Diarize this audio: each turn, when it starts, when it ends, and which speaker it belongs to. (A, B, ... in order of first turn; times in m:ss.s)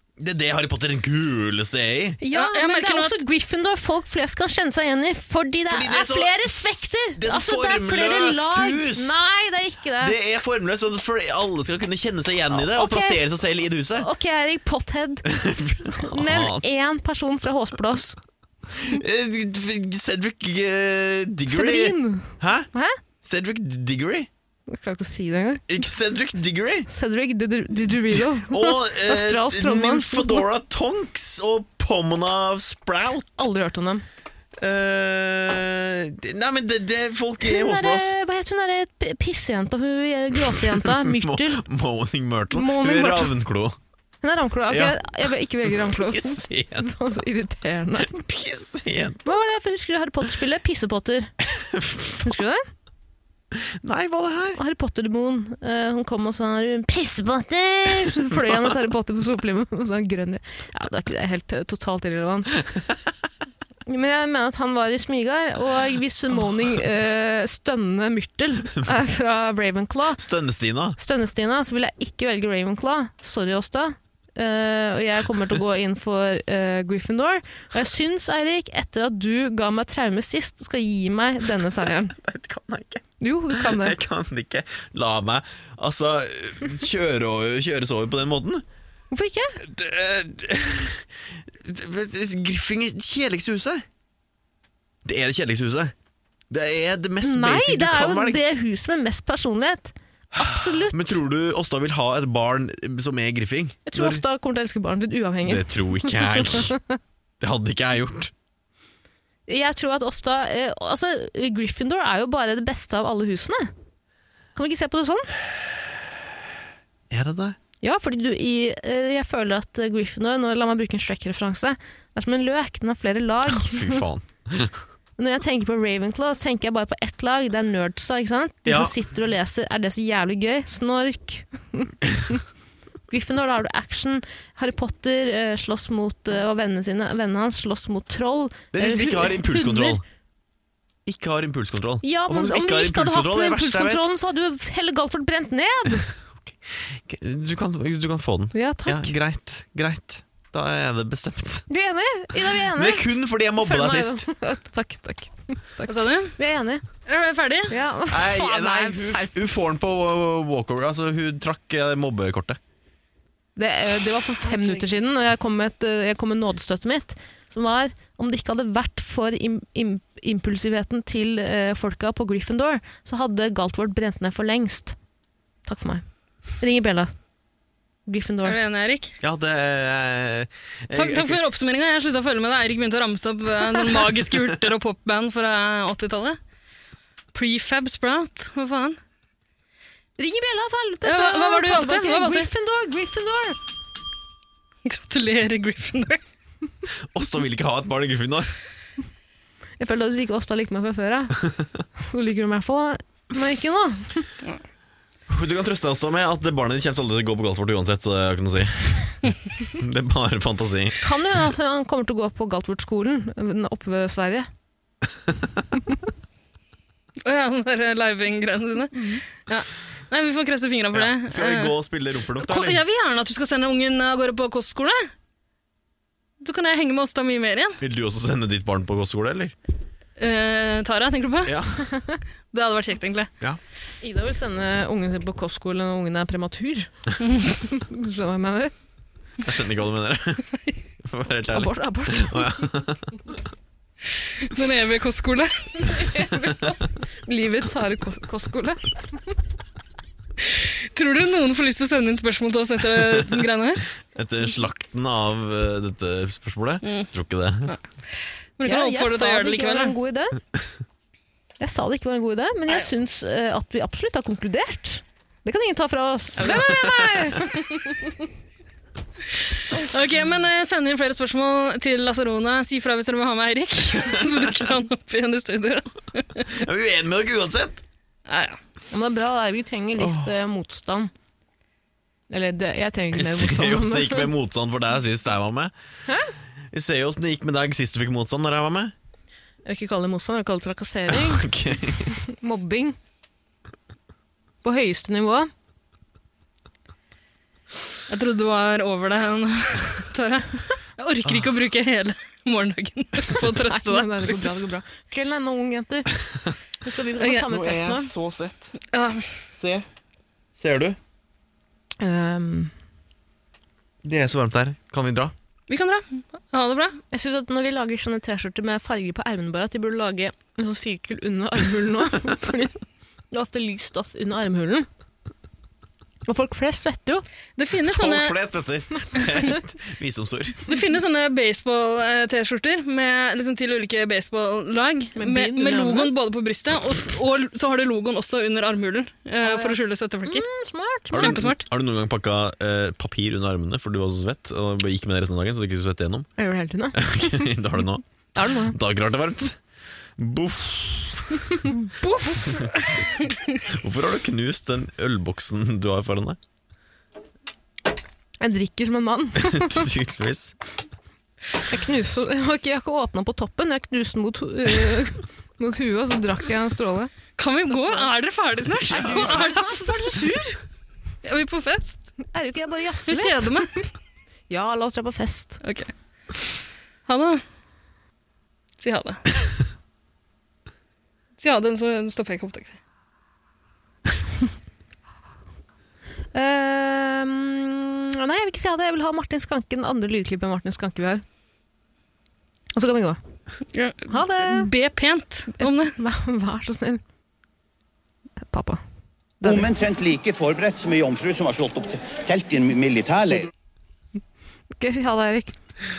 0:00.2-0:02.2 A
0:02.2-0:10.2 B
0:02.3-0:03.2 C
0:05.7-0:09.1 A
0:10.0-0:14.1 A
0:12.6-0:13.2 B
0:14.0-0:15.3 B
0:15.3-0:16.6 A
0:16.0-0:18.2 B
0:18.7-0:22.7 A
0:21.5-0:23.0 B
0:23.2-0:24.3 A
0:24.7-0:25.7 B
0:25.7-0:26.9 A
0:26.9-0:30.5 B
0:28.0-0:33.5 A
0:33.4-0:34.0 B
0:34.6-0:38.1 A
0:37.4-0:41.6 B
0:40.4-0:43.8 A
0:42.5-0:43.4 B
0:44.2-0:48.2 B
0:44.7-0:45.0 A
0:45.6-0:47.0 A
0:48.0-0:49.3 A
0:49.2-0:51.3 B
0:51.5-0:52.3 A
0:52.2-0:52.6 B
0:53.5-0:54.6 A
0:54.6-1:02.6 B
0:58.0-0:58.6 A
1:03.9-1:10.2 B
1:10.2-1:11.0 A
1:11.0-1:22.2 B
1:21.6-1:28.6 A
1:23.2-1:24.0 B
1:29.1-1:29.6 B
1:29.6-1:33.8 A
1:35.0-1:35.9 A
1:36.5-1:38.4 A
1:37.2-1:41.2 B
1:40.4-1:44.2 A
1:43.9-1:47.0 B
1:45.4-1:46.8 A
1:47.4-1:48.3 A
1:49.5-1:53.7 B
1:54.6-1:55.3 B
1:57.1-1:57.6 A
1:57.8-2:04.0 B
2:03.5-2:04.8 A
2:05.2-2:12.4 B
2:08.7-2:08.9 A
2:13.1-2:20.0 B
2:18.7-2:20.0 A
2:21.1-2:24.1 A
2:22.0-2:26.1 B
2:26.4-2:31.7 A
2:28.5-2:29.1 B
2:31.7-2:36.8 B
2:32.7-2:34.2 A
2:35.9-2:36.4 C
2:37.1-2:37.8 C
2:37.7-2:39.4 B
2:38.1-2:42.6 A
2:43.6-2:55.0 B
2:44.5-2:44.9 C
2:55.7-2:56.0 B
2:56.6-2:57.1 B
2:58.1-2:58.6 B
2:58.4-2:59.2 C
2:59.2-3:01.4 A
3:00.9-3:06.4 C
3:07.3-3:09.0 C
3:10.2-3:13.6 B
3:11.0-3:12.5 C
3:14.8-3:16.2 C
3:17.0-3:18.5 A
3:19.8-3:21.4 B
3:22.1-3:24.3 B
3:25.3-3:31.0 A
3:31.0-3:34.5 B
3:37.2-3:41.8 C
3:40.9-3:42.8 A
3:42.4-3:45.1 C
3:46.4-3:47.8 C
3:47.8-3:49.6 A
3:50.2-3:51.6 C
3:51.4-3:51.9 A
3:52.5-3:53.3 C
3:54.0-3:56.9 B
3:57.2-3:57.6 C
3:57.6-3:58.7 B
3:59.4-4:00.5 A
4:01.0-4:03.2 A
4:01.5-4:02.7 B
4:04.4-4:06.0 C
4:05.8-4:09.2 B
4:10.4-4:13.9 C
4:14.1-4:17.8 A
4:18.6-4:20.0 C
4:18.6-4:20.4 B
4:21.6-4:28.2 B
4:26.4-4:27.0 C
4:29.3-4:36.6 C
4:34.0-4:34.5 A
4:36.5-4:37.8 A
4:38.3-4:38.6 C
4:38.9-4:41.1 B
4:40.0-4:40.3 A
4:42.3-4:44.3 B
4:43.1-4:45.7 A
4:46.1-4:46.3 B
4:46.7-4:48.9 A
4:49.6-4:53.0 B
4:51.1-4:52.1 A
4:54.6-4:55.5 B
4:58.1-5:04.6 C
5:03.6-5:06.1 B
5:06.8-5:08.1 B
5:07.4-5:08.8 A
5:08.9-5:09.3 C
5:09.5-5:09.9 A
5:10.6-5:11.0 A
5:12.0-5:12.7 B
5:14.0-5:15.3 A
5:15.7-5:17.0 C
5:17.1-5:22.8 B
5:23.3-5:24.9 B
5:26.3-5:27.2 B
5:27.6-5:28.3 C
5:27.9-5:30.6 A
5:30.7-5:40.5 C
5:35.2-5:36.1 B
5:39.4-5:41.4 B
5:41.1-5:46.3 A
5:41.1-5:41.6 C
5:46.4-5:47.6 B
5:46.9-5:48.0 A
5:48.4-5:48.8 B
5:48.7-5:49.6 A
5:50.2-5:51.7 A
5:52.0-5:53.6 C
5:53.7-5:56.4 A
5:58.4-5:59.9 B
5:59.4-6:00.5 A
6:01.7-6:07.1 B
6:07.4-6:10.2 C
6:07.7-6:08.1 B
6:08.8-6:09.5 A
6:08.9-6:10.6 B
6:11.2-6:12.1 C
6:12.3-6:13.8 B
6:13.1-6:13.7 C
6:14.5-6:15.6 B
6:15.6-6:15.9 C
6:17.1-6:17.4 C
6:18.8-6:19.3 C
6:21.4-6:22.8 C
6:26.3-6:31.2 B
6:32.8-6:33.2 B
6:33.7-6:36.0 C
6:34.1-6:34.7 B
6:35.6-6:37.0 B
6:38.5-6:38.8 B
6:39.4-6:39.7 B
6:39.4-6:43.5 D
6:44.8-6:45.6 B